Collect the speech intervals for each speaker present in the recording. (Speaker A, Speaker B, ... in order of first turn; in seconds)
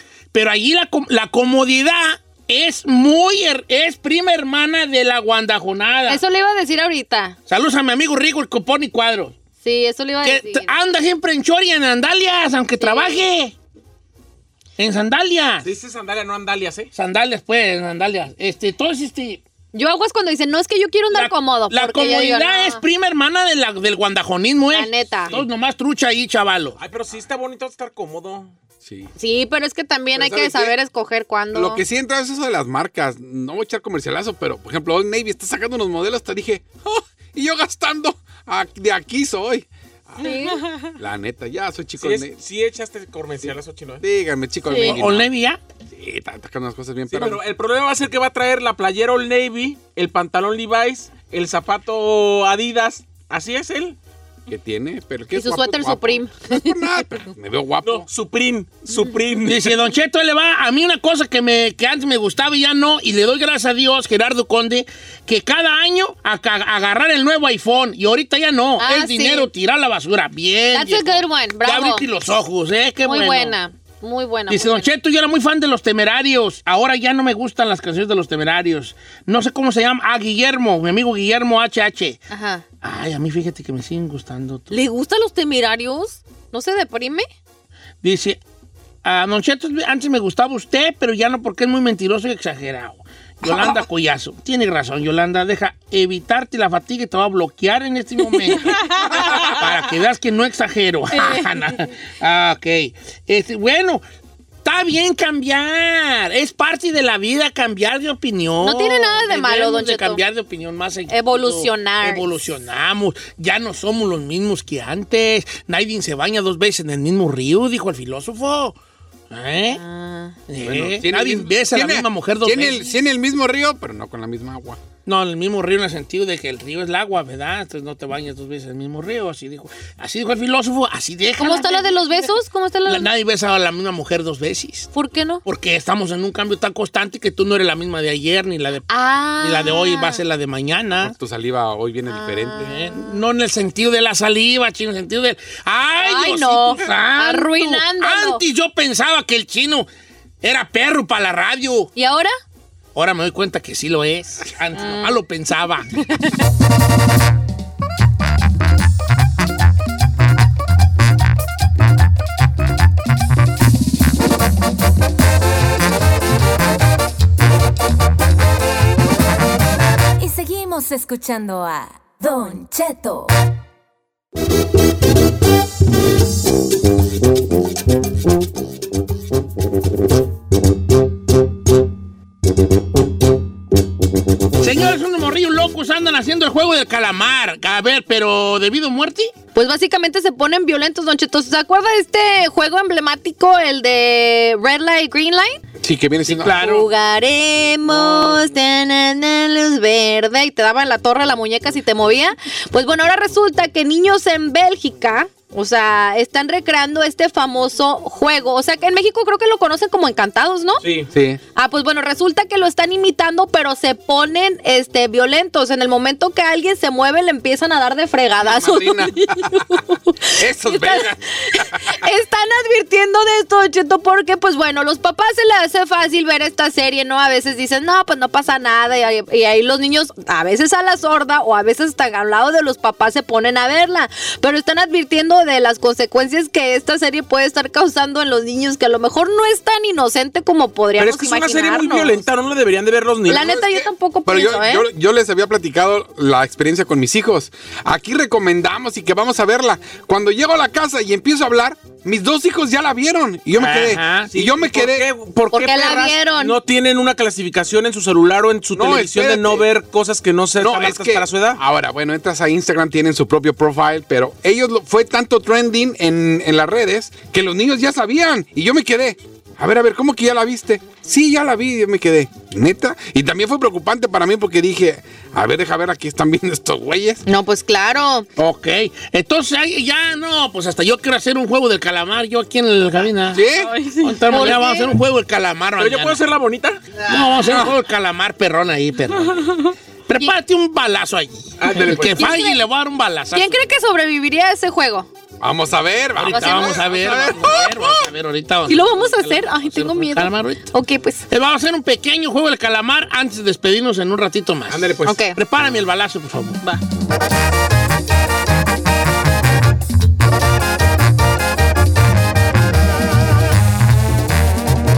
Speaker A: 0.3-6.2, 7.5-9.4, 10.2-13.6, 14.8-15.7, 16.9-19.4, 21.1-26.8, 44.8-45.6, 59.5-73.5, 74.5-82.2, 82.8-84.8, 88.0-88.4, 89.0-104.0, 104.6-118.8, 119.3-119.8, 120.5-123.0, 125.0-134.9, 135.4-138.9, 139.4-141.2, 142.6-149.9, 150.4-151.9, 152.9-155.9, 184.6-189.3, 196.2-196.9, 253.6-254.3, 278.4-283.4, 284.0-286.2, 287.0-293.6, 296.1-300.7, 301.3-306.6
Speaker B: 6.1-7.4, 9.6-10.7, 12.8-13.2, 19.7-22.8, 24.7-25.3, 29.2-31.8, 40.2-40.6, 44.6-45.0, 55.4-56.9, 68.8-69.5, 70.7-72.1, 73.0-74.9, 82.3-82.7, 84.7-87.3, 101.1-101.5, 108.6-110.2, 111.1-112.4, 119.7-120.4, 131.4-133.1, 134.9-135.4, 138.9-140.2, 142.1-143.2, 146.0-148.4, 152.0-152.3, 154.8-155.2, 189.5-195.6, 196.5-210.8, 211.6-242.2, 243.3-244.9, 255.5-256.6, 277.3-278.3, 284.3-284.9, 291.7-292.6, 293.3-295.1, 296.3-298.1, 298.7-301.3, 305.1-305.4
Speaker C: 15.6-16.9, 26.8-28.6, 42.0-44.0, 47.1-54.0, 57.8-59.8, 210.8-211.1, 241.0-243.4, 254.3-261.6, 285.8-286.8, 291.6-292.4, 304.7-305.2
Speaker D: 28.8-29.1, 30.1-30.7, 31.5-40.3, 41.0-42.3, 43.4-45.3, 45.9-47.4, 54.5-58.1, 120.6-124.8, 141.0-142.8, 195.8-196.6, 211.1-211.4, 218.4-222.0, 243.3-255.1, 258.8-259.7, 260.6-277.2, 283.3-283.7, 287.5-287.7, 295.4-297.8
Speaker E: 40.2-41.0, 98.4-99.6, 283.5-284.2, 289.2-289.8
Speaker F: 170.2-173.4